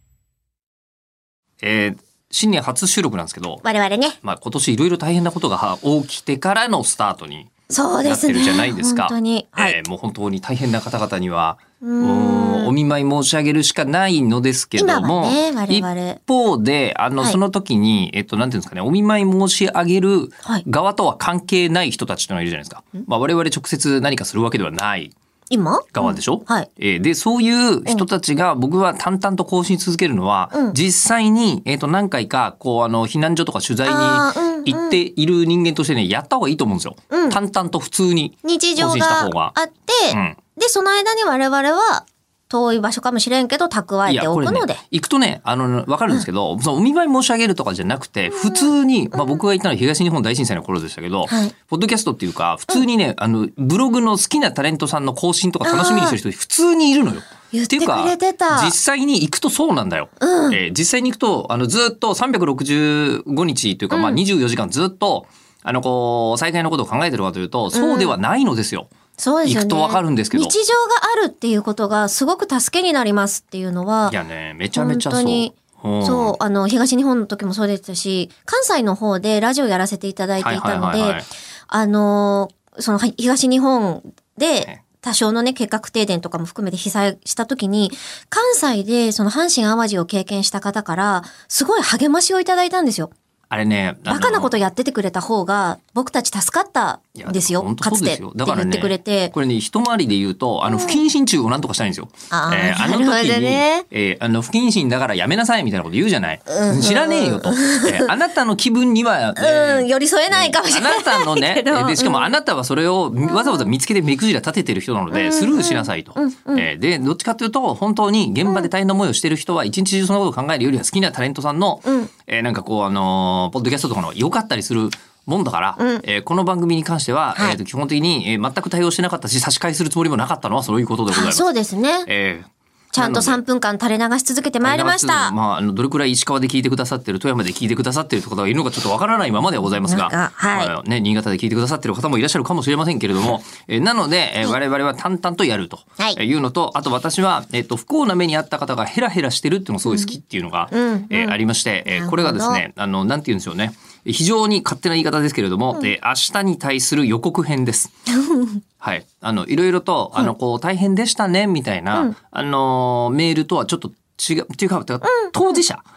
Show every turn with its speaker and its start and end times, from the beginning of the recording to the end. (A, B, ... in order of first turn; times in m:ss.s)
0:01.6-0:03.6 A
0:03.6-0:04.2 B
0:04.2-0:07.5 A
0:07.7-0:09.8 B
0:08.0-0:25.1 A
0:11.8-0:12.7 B
0:14.8-0:16.2 B
0:25.5-0:26.7 B
0:25.9-0:39.5 A
0:30.5-0:30.8 B
0:33.8-0:35.0 B
0:37.1-0:37.4 B
0:38.4-0:44.8 B
0:40.1-0:40.4 A
0:44.0-1:08.9 A
0:48.3-0:49.4 B
0:51.3-0:51.5 B
0:55.6-0:56.2 B
0:57.5-0:58.7 B
1:00.2-1:00.6 B
1:03.9-1:04.2 B
1:07.7-1:08.2 B
1:09.2-1:14.2 B
1:09.4-1:10.5 A
1:14.1-1:16.3 A
1:14.7-1:33.1 B
1:20.4-1:21.2 A
1:33.5-1:34.5 A
1:34.1-1:39.3 B
1:37.2-2:11.5 A
1:40.7-1:41.0 B
1:42.3-1:43.8 B
1:46.5-1:48.1 B
1:49.4-1:52.3 B
1:53.2-1:53.7 B
1:55.1-1:56.7 B
2:01.8-2:02.1 B
2:05.8-2:06.0 B
2:11.1-2:12.1 B
2:12.1-2:13.4 A
2:12.9-2:15.3 B
2:14.6-2:37.9 A
2:19.8-2:20.7 B
2:29.8-2:30.1 B
2:30.7-2:32.6 B
2:38.1-2:38.6 B
2:38.8-2:45.8 A
2:45.0-2:45.5 B